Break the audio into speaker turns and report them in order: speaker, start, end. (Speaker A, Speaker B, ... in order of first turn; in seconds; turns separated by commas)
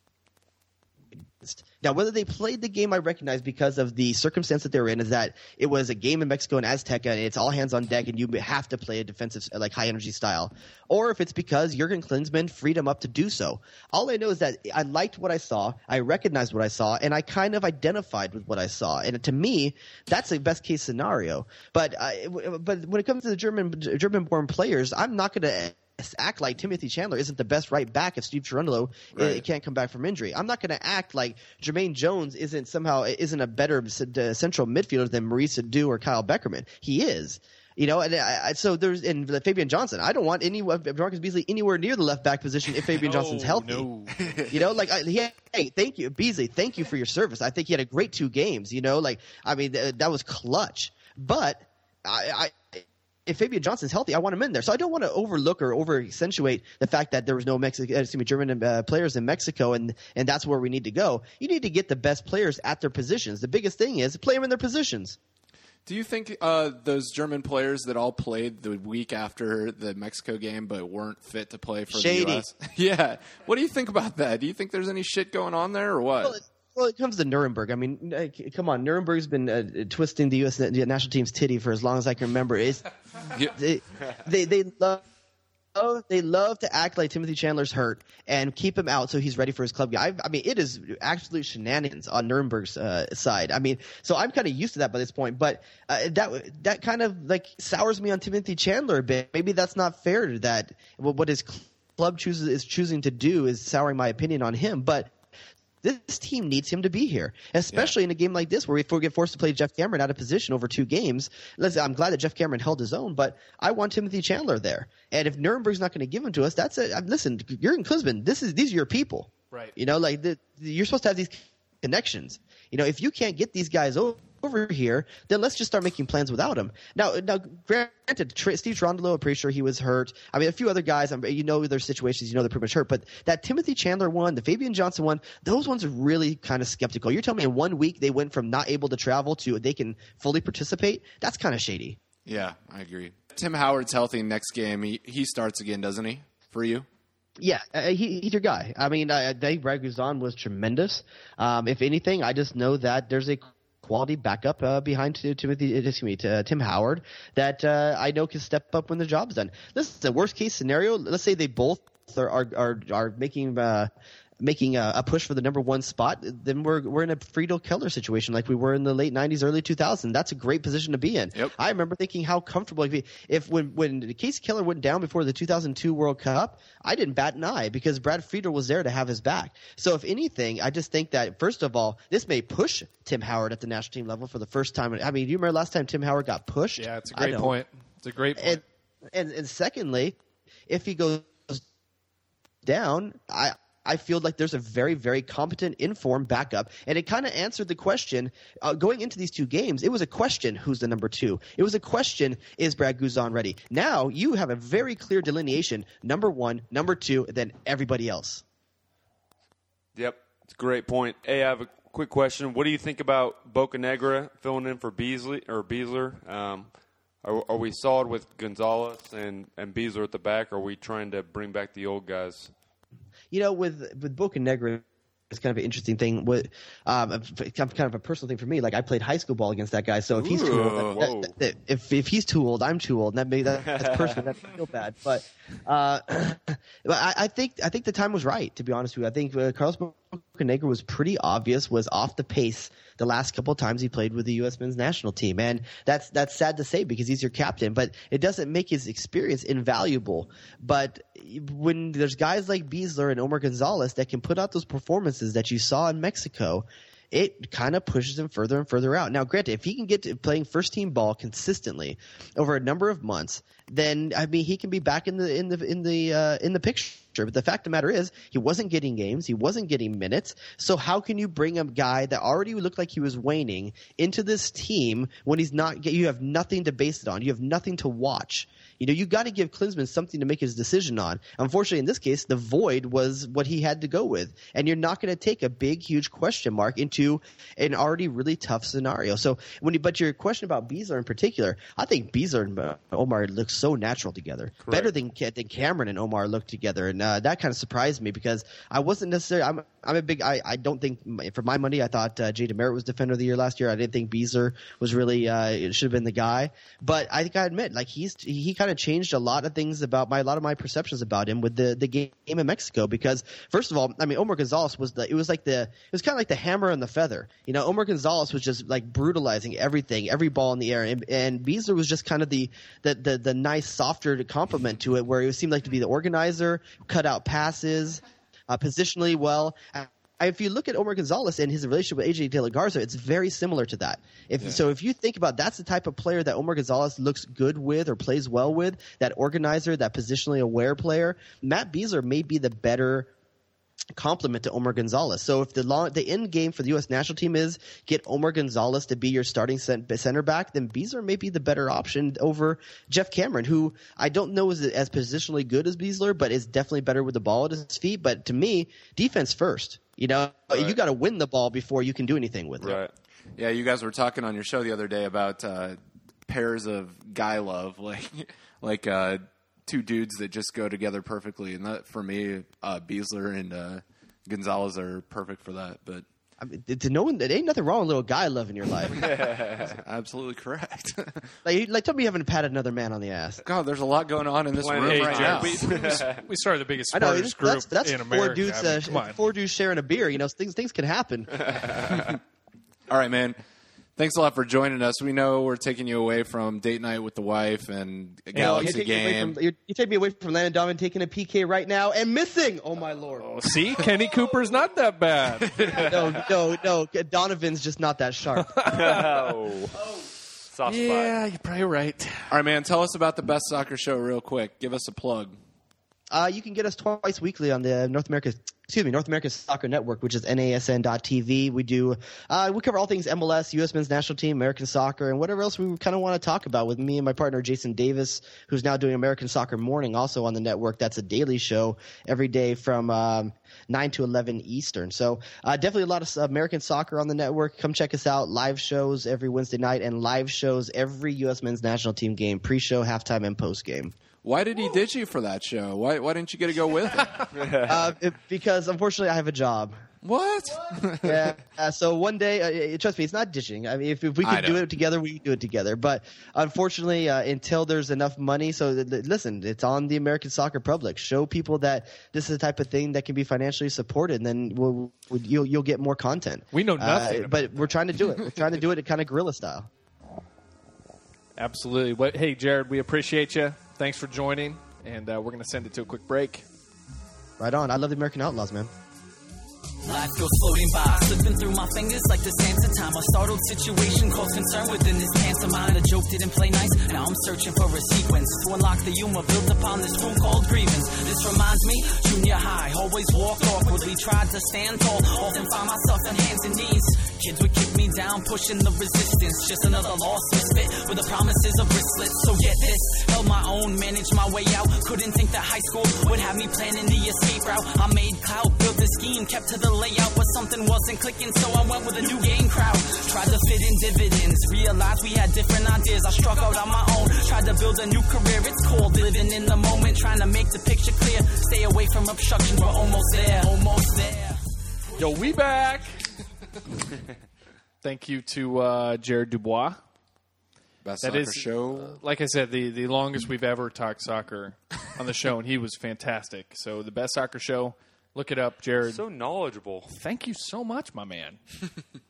Speaker A: 1.4-43.9, Speaker B: 29.1-29.4, Speaker C: 42.9-44.3, Speaker B: 44.2-44.6, Speaker A: 44.5-65.2, Speaker B: 65.8-76.4, Speaker A: 71.9-72.5, Speaker A: 76.2-85.0, Speaker A: 85.7-105.1, Speaker A: 105.8-142.0, Speaker B: 142.2-146.8, Speaker A: 147.4-163.9, Speaker A: 164.4-187.5, Speaker C: 186.8-188.6, Speaker A: 188.3-190.2, Speaker A: 190.7-191.6, Speaker A: 192.6-208.4, Speaker D: 209.9-216.7, Speaker D: 217.2-222.5, Speaker A: 223.3-343.1, Speaker B: 230.1-231.1, Speaker D: 230.9-231.3, Speaker D: 233.7-234.1, Speaker D: 294.6-294.9, Speaker A: 343.9-362.8, Speaker D: 362.6-362.9, Speaker B: 363.4-376.1, Speaker A: 376.4-379.1, Speaker D: 378.9-379.7, Speaker B: 379.3-381.3, Speaker A: 381.4-383.4, Speaker B: 383.4-385.7, Speaker D: 384.5-386.2, Speaker C: 384.8-389.2, Speaker A: 386.9-392.0, Speaker D: 391.5-392.1, Speaker B: 392.9-393.4, Speaker B: 393.9-399.4, Speaker A: 398.3-403.8, Speaker C: 403.2-406.2, Speaker B: 405.4-405.8, Speaker A: 405.8-408.6, Speaker C: 408.4-409.3, Speaker D: 408.6-409.8, Speaker D: 410.5-411.2, Speaker C: 410.6-412.4, Speaker B: 412.3-415.4, Speaker A: 416.1-443.9, Speaker B: 444.2-447.4, Speaker D: 447.3-447.7, Speaker A: 447.6-449.8, Speaker B: 450.0-451.4, Speaker A: 451.0-469.7, Speaker B: 454.2-454.6, Speaker C: 466.5-467.6, Speaker C: 471.4-476.4, Speaker A: 477.4-478.7, Speaker E: 479.8-524.4, Speaker C: 525.0-526.0, Speaker C: 527.8-529.8, Speaker B: 530.8-532.0, Speaker C: 531.0-539.0, Speaker D: 538.8-539.9, Speaker C: 539.9-541.4